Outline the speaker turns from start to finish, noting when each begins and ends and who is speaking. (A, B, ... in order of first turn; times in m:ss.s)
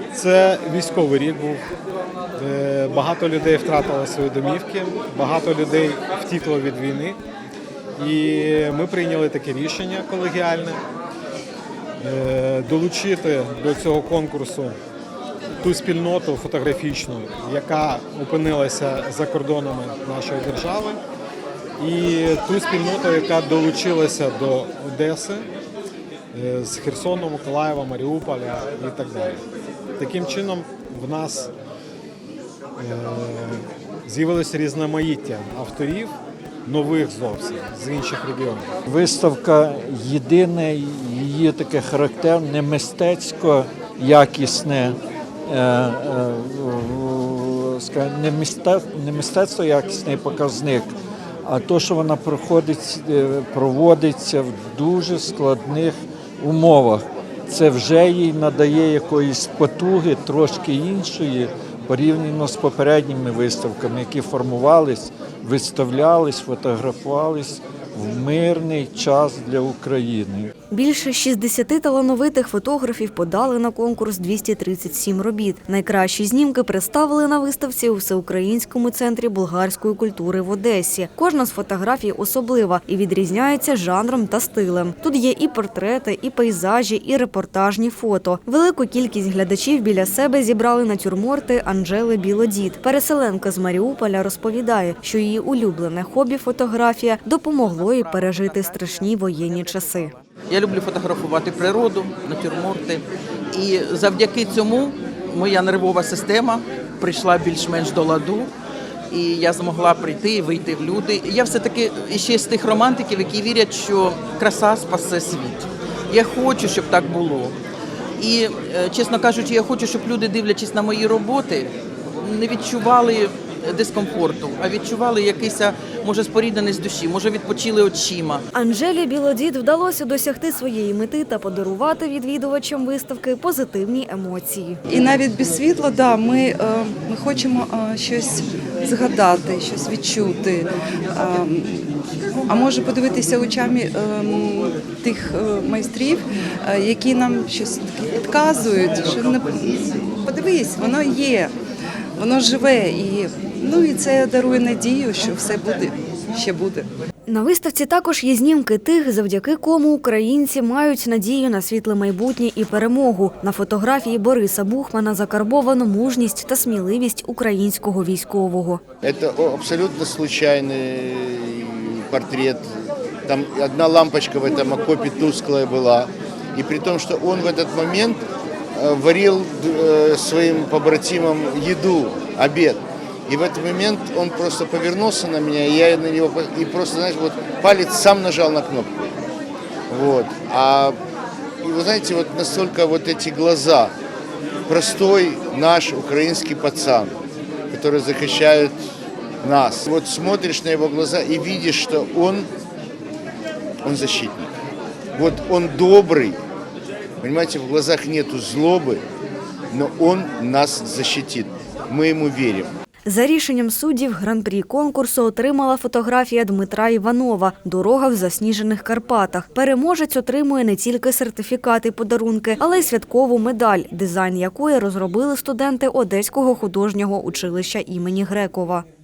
0:00.1-0:01.6 A
0:02.3-0:07.2 A
0:08.0-0:10.8 A
0:12.0-0:14.8 A
0:15.6-0:21.0 A
0:21.8-0:25.5 A
0:26.3-0:29.4 A
0:30.0-0:31.5 A
0:32.8-0:36.1 A
0:36.6-0:38.7 A
0:38.9-1:10.5 B
1:10.7-1:40.1 C
1:37.6-1:39.0 D
1:40.5-1:48.5 D
1:49.1-1:57.6 D
1:58.2-2:08.4 D
2:08.5-2:14.8 C
2:14.9-2:21.9 E
2:22.5-2:31.5 E
2:32.2-2:36.9 E
2:37.3-2:48.8 C
2:49.0-2:52.8 F
2:53.3-2:58.2 F
2:58.8-3:09.2 F
3:09.9-3:11.0 F
3:11.6-3:13.9 F
3:14.7-3:17.2 F
3:17.7-3:18.8 F
3:19.4-3:22.5 F
3:23.8-3:24.5 F
3:25.1-3:26.4 F
3:27.2-3:29.0 F
3:29.7-3:32.7 F
3:33.1-3:48.8 C